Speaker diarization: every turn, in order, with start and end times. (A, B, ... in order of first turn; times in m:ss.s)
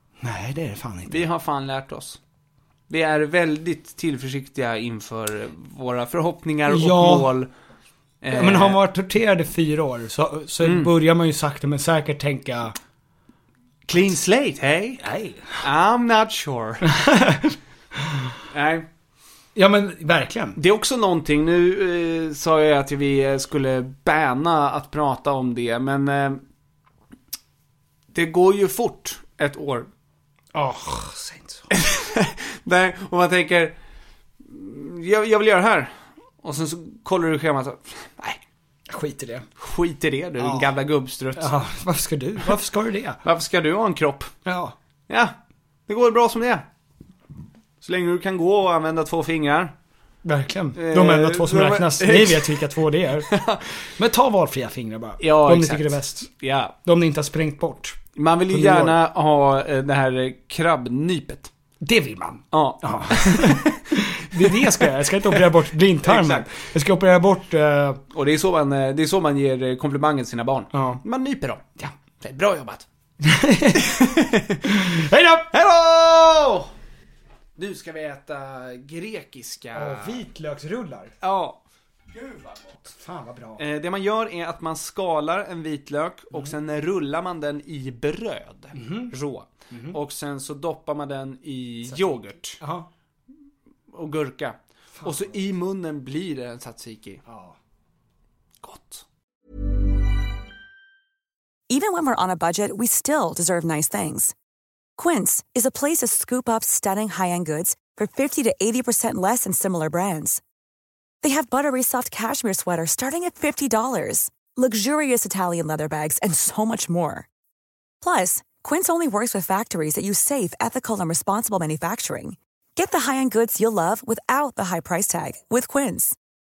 0:00.2-0:01.2 A
0:01.1-0:02.2 B
0:02.9-0:07.5 B
0:06.7-0:07.3 A
0:08.2-0:08.8 B
0:08.3-0:12.8 A
0:10.6-0:10.9 B
0:13.9-0:16.9 B
0:15.0-0:15.6 A
0:16.9-0:18.3 A
0:18.5-0:18.9 B
0:19.6-0:20.6 A
0:20.6-0:26.4 B
0:28.1-0:29.9 B
0:30.5-0:31.7 A
0:31.7-0:33.7 B
0:34.4-0:38.4 B
0:38.9-0:39.5 A
0:39.6-0:41.5 B
0:40.4-0:40.7 A
0:41.4-0:43.2 A
0:43.2-0:44.3 B
0:44.4-0:44.8 A
0:45.1-0:45.3 B
0:45.9-0:46.6 B
0:47.8-0:49.7 B
0:50.2-0:53.3 A
0:50.8-0:52.6 B
0:53.3-0:53.6 B
0:53.9-0:56.3 A
0:55.2-0:56.7 B
0:56.8-0:58.0 A
0:58.2-1:01.5 B
0:58.5-0:59.0 A
1:01.8-1:08.0 A
1:02.5-1:05.4 B
1:06.0-1:06.5 B
1:08.1-1:11.6 B
1:10.7-1:11.0 A
1:12.2-1:12.9 B
1:13.2-1:14.1 A
1:13.8-1:14.6 B
1:14.6-1:15.5 A
1:15.5-1:16.7 B
1:17.6-1:20.2 B
1:19.7-1:21.1 A
1:21.2-1:22.9 B
1:22.9-1:23.6 A
1:23.6-1:32.6 B
1:28.8-1:29.1 A
1:29.7-1:30.0 A
1:31.9-1:32.9 A
1:33.9-1:37.2 B
1:35.0-1:35.4 A
1:37.2-1:37.6 A
1:38.6-1:39.0 B
1:41.7-1:44.3 C
1:45.0-1:50.4 C
1:51.2-1:57.3 C
1:58.0-2:06.2 C